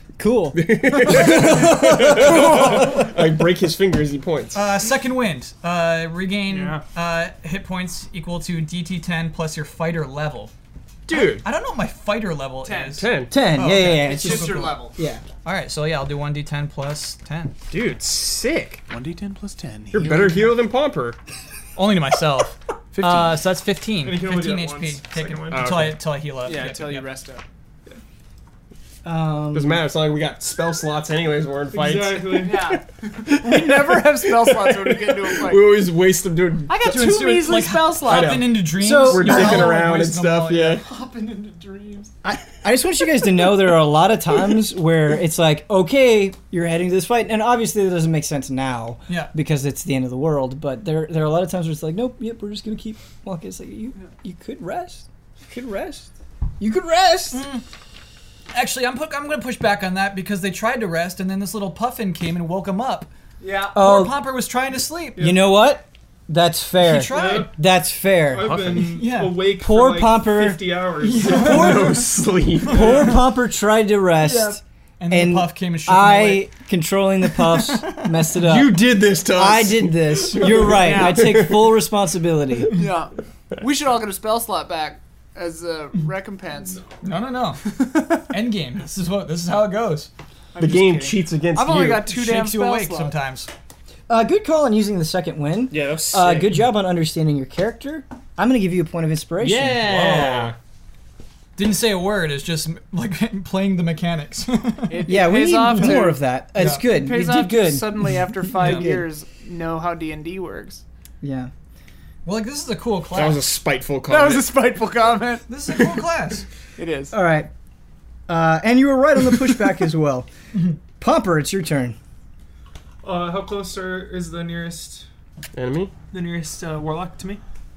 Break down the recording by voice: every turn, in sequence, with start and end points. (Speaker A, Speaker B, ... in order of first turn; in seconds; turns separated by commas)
Speaker A: 0.2-3.0, Speaker B: 0.5-4.7, Speaker C: 2.2-3.0, Speaker C: 4.5-10.5, Speaker D: 6.5-6.8, Speaker B: 11.1-11.5, Speaker C: 11.1-14.9, Speaker E: 12.6-13.0, Speaker B: 12.9-13.4, Speaker A: 13.3-15.2, Speaker E: 13.8-15.0, Speaker C: 15.4-17.6, Speaker B: 17.7-18.8, Speaker E: 18.9-20.5, Speaker B: 19.9-21.2, Speaker C: 21.8-27.0, Speaker E: 23.0-23.3, Speaker D: 24.0-25.7, Speaker B: 25.5-26.0, Speaker E: 26.4-27.4, Speaker A: 29.0-29.8, Speaker B: 29.5-37.3, Speaker D: 31.7-32.7, Speaker E: 32.4-35.8, Speaker E: 36.7-38.5, Speaker A: 36.8-37.6, Speaker C: 37.0-40.8, Speaker B: 38.0-40.8, Speaker A: 38.8-39.8, Speaker E: 40.8-42.1, Speaker A: 42.2-57.4, Speaker C: 49.1-49.3, Speaker C: 57.3-57.6, Speaker C: 58.5-63.1, Speaker E: 63.4-63.8, Speaker A: 63.7-64.2, Speaker C: 63.7-65.3, Speaker A: 65.2-68.8, Speaker C: 66.8-67.5, Speaker D: 67.0-67.5, Speaker D: 68.2-71.6, Speaker C: 68.4-69.5, Speaker A: 69.5-70.6, Speaker C: 71.0-72.0, Speaker A: 71.2-72.0, Speaker B: 71.2-73.1, Speaker A: 72.7-82.7, Speaker C: 74.2-76.5, Speaker C: 77.5-78.1, Speaker B: 78.4-81.7, Speaker E: 80.7-81.5, Speaker E: 82.7-86.8, Speaker C: 87.0-90.1, Speaker E: 90.5-93.1, Speaker B: 90.6-92.1, Speaker C: 92.0-93.5, Speaker A: 94.1-100.5, Speaker B: 95.7-96.5, Speaker B: 99.4-100.5, Speaker C: 101.5-105.1, Speaker E: 104.9-106.2, Speaker A: 105.1-109.1, Speaker C: 106.6-106.9, Speaker E: 106.8-110.8, Speaker C: 108.6-108.9, Speaker A: 111.2-111.5, Speaker C: 112.2-113.4, Speaker B: 113.1-114.5, Speaker E: 114.1-115.5, Speaker C: 115.5-116.4, Speaker E: 116.8-117.1, Speaker A: 117.1-117.5, Speaker A: 118.3-120.3, Speaker A: 121.0-122.0, Speaker D: 123.0-125.0, Speaker B: 125.5-125.9, Speaker D: 126.1-127.4